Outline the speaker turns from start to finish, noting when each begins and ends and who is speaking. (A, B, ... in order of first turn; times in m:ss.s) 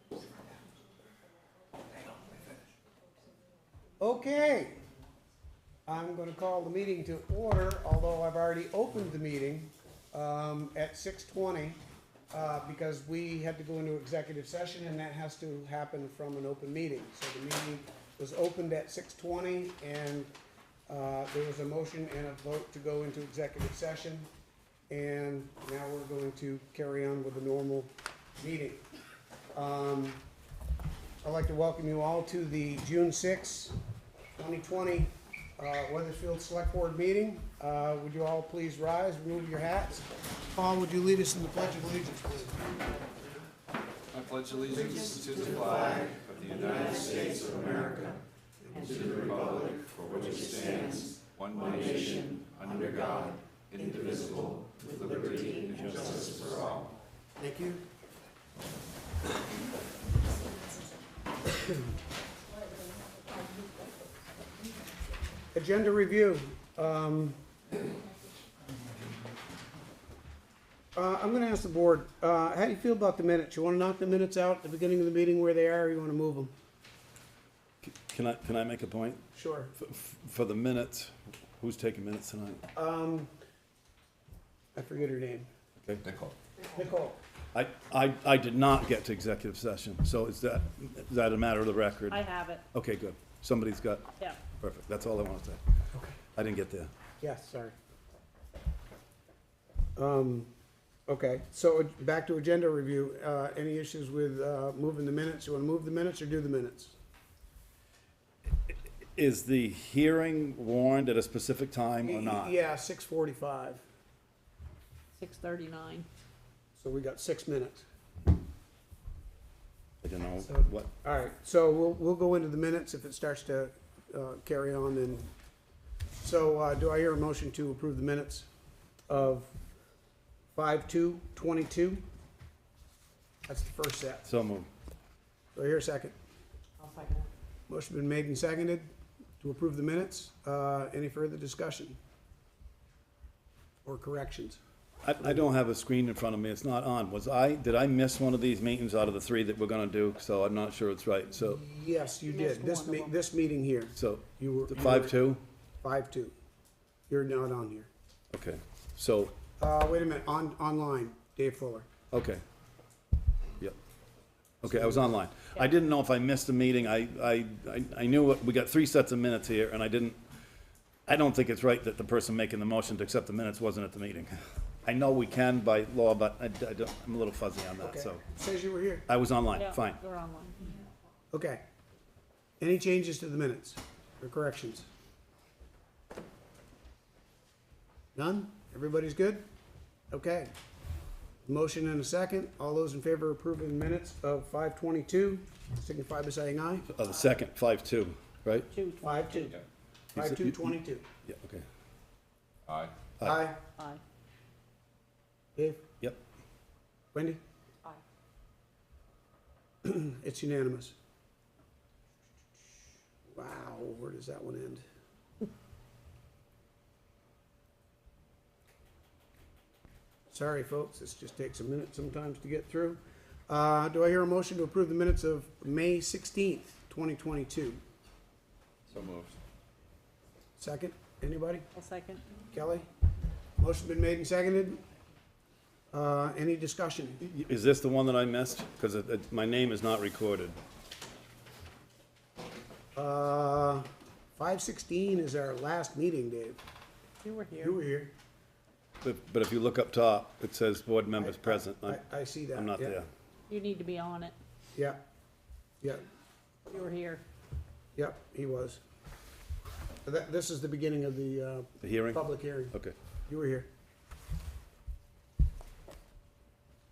0:04.0-0:04.8 A
0:05.9-0:20.3 A
0:20.9-0:24.3 A
0:24.9-0:28.8 A
0:29.5-0:30.2 A
0:31.2-0:33.8 A
0:34.4-0:42.8 A
0:44.1-0:48.1 B
0:47.5-0:48.1 A
0:48.7-0:56.9 B
0:57.4-0:57.8 A
1:05.5-1:07.4 A
1:11.0-1:16.5 A
1:17.8-1:19.2 C
1:19.3-1:19.7 A
1:19.8-1:22.6 C
1:22.7-1:23.3 A
1:24.8-1:25.5 A
1:26.1-1:26.3 B
1:26.7-1:27.2 A
1:27.5-1:35.6 C
1:32.1-1:32.6 D
1:36.4-1:36.9 C
1:37.2-1:37.8 A
1:40.0-1:40.5 A
1:41.1-1:47.0 A
1:49.2-1:52.5 C
1:52.0-1:53.8 A
1:55.2-1:56.1 D
1:56.8-1:57.8 A
2:00.0-2:00.9 C
2:00.4-2:05.3 A
2:06.2-2:08.5 A
2:09.1-2:09.5 A
2:10.6-2:12.0 A
2:13.5-2:14.3 A
2:14.3-2:14.7 C
2:15.6-2:16.2 A
2:16.8-2:17.3 D
2:17.7-2:18.9 A
2:19.4-2:22.0 A
2:23.8-2:24.6 A
2:25.0-2:31.6 C
2:31.4-2:35.2 A
2:32.2-2:33.2 D
2:34.0-2:35.4 C
2:35.8-2:36.3 A
2:37.1-2:37.9 A
2:38.3-2:39.3 C
2:39.6-2:41.9 A
2:42.1-2:42.4 C
2:44.6-2:50.2 C
2:44.7-2:45.1 A
2:51.1-2:58.2 C
2:57.8-2:59.1 A
2:59.1-3:00.0 C
2:59.6-3:00.6 D
3:01.3-3:01.6 A
3:02.6-3:04.9 A
3:08.2-3:09.4 A
3:10.1-3:10.5 A
3:11.4-3:16.9 A
3:16.9-3:18.7 C
3:18.7-3:19.5 D
3:19.0-3:19.6 A
3:20.2-3:21.0 A
3:20.2-3:20.7 C
3:21.2-3:21.6 C
3:22.7-3:23.0 B
3:23.2-3:23.5 C
3:23.2-3:23.6 A
3:25.6-3:25.8 A
3:27.1-3:27.4 A
3:29.8-3:31.0 A
3:33.3-3:34.8 A
3:40.3-3:47.8 A
3:48.9-3:49.4 B
3:50.6-3:51.6 A
3:51.8-3:52.2 D
3:52.5-3:52.9 A
3:53.6-3:54.8 A
3:55.9-3:57.2 A
3:57.2-4:00.6 C
4:03.0-4:06.6 A
4:07.2-4:07.8 D
4:07.6-4:08.1 A
4:09.0-4:12.0 C
4:11.2-4:13.0 A
4:12.5-4:13.1 C
4:13.5-4:14.4 D
4:14.8-4:15.0 A
4:16.7-4:17.2 D
4:18.0-4:18.8 A
4:20.0-4:22.8 A
4:21.8-4:22.2 C
4:23.3-4:23.7 A